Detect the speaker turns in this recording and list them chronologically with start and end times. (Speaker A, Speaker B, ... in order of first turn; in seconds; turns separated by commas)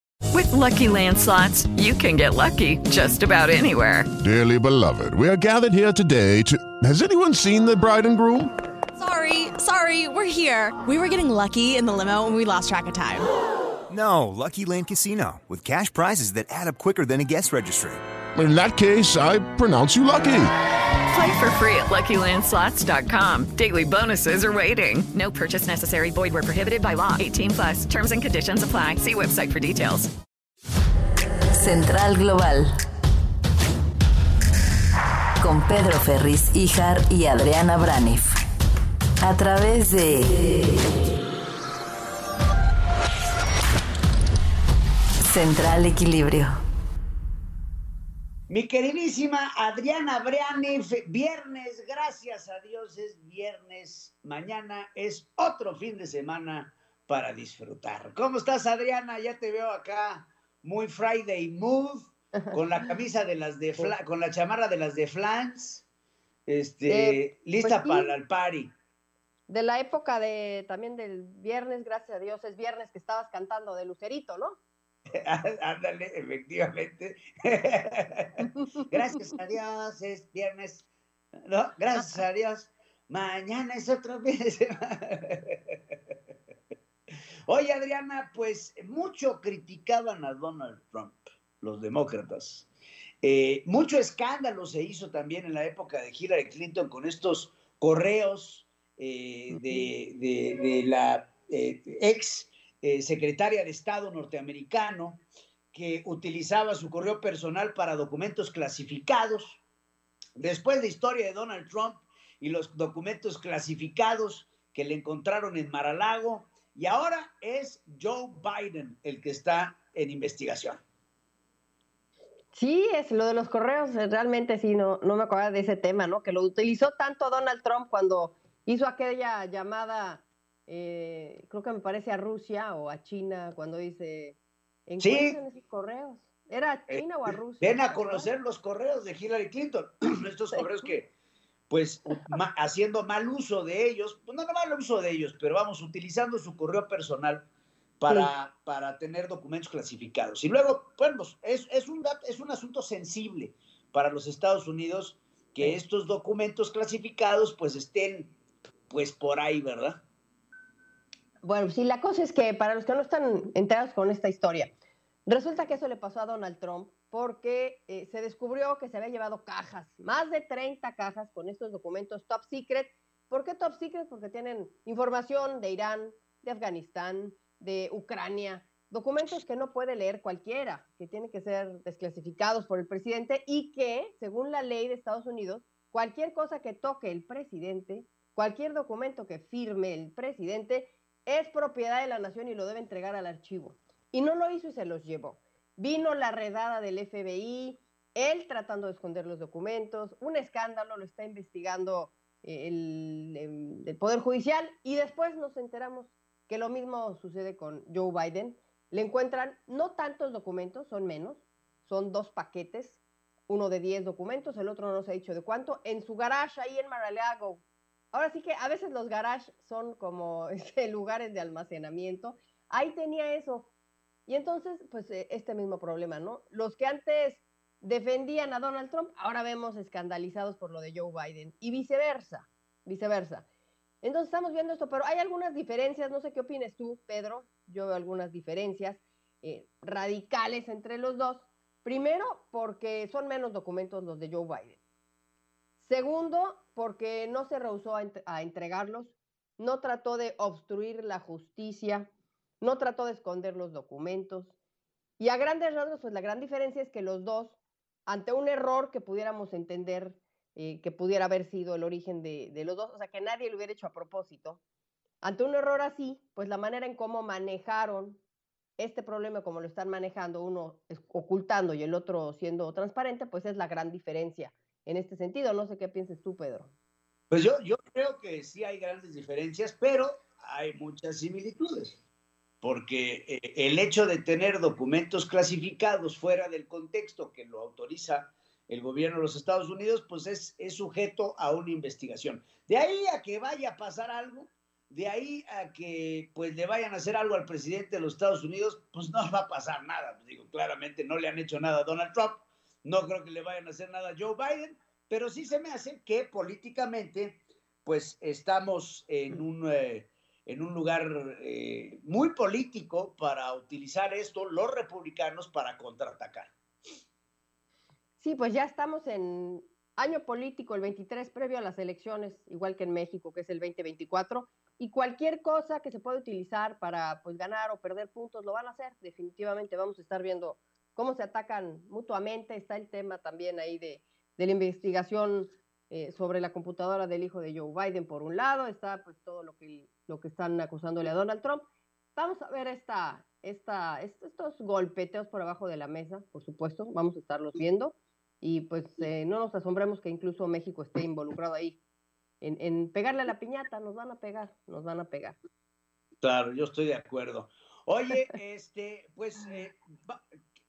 Speaker A: 0.3-4.1, Speaker B: 4.2-8.5, Speaker C: 9.0-13.3, Speaker D: 13.9-18.0, Speaker B: 18.3-20.5, Speaker A: 21.1-30.1, Speaker E: 31.6-32.7, Speaker E: 35.4-38.3, Speaker E: 39.2-40.3, Speaker E: 45.2-46.5, Speaker F: 48.5-65.8, Speaker F: 66.5-68.7, Speaker G: 66.9-68.1, Speaker G: 69.5-74.6, Speaker F: 75.2-80.9, Speaker F: 81.5-85.9, Speaker F: 87.5-92.7, Speaker F: 93.2-105.2, Speaker G: 99.5-99.9, Speaker F: 105.7-109.6, Speaker F: 110.4-120.8, Speaker G: 122.5-138.3, Speaker F: 135.0-135.4, Speaker F: 137.6-141.1, Speaker F: 141.7-147.4, Speaker F: 148.0-158.3, Speaker F: 158.9-160.0, Speaker G: 161.4-164.7, Speaker G: 165.2-223.7, Speaker G: 224.3-233.4, Speaker G: 234.0-244.8, Speaker G: 245.8-252.1, Speaker G: 252.6-254.5, Speaker G: 255.2-264.6, Speaker G: 265.2-268.2, Speaker G: 268.8-276.7, Speaker F: 277.3-282.0, Speaker F: 282.6-316.5, Speaker G: 318.2-351.8, Speaker G: 352.4-355.4, Speaker F: 356.2-360.2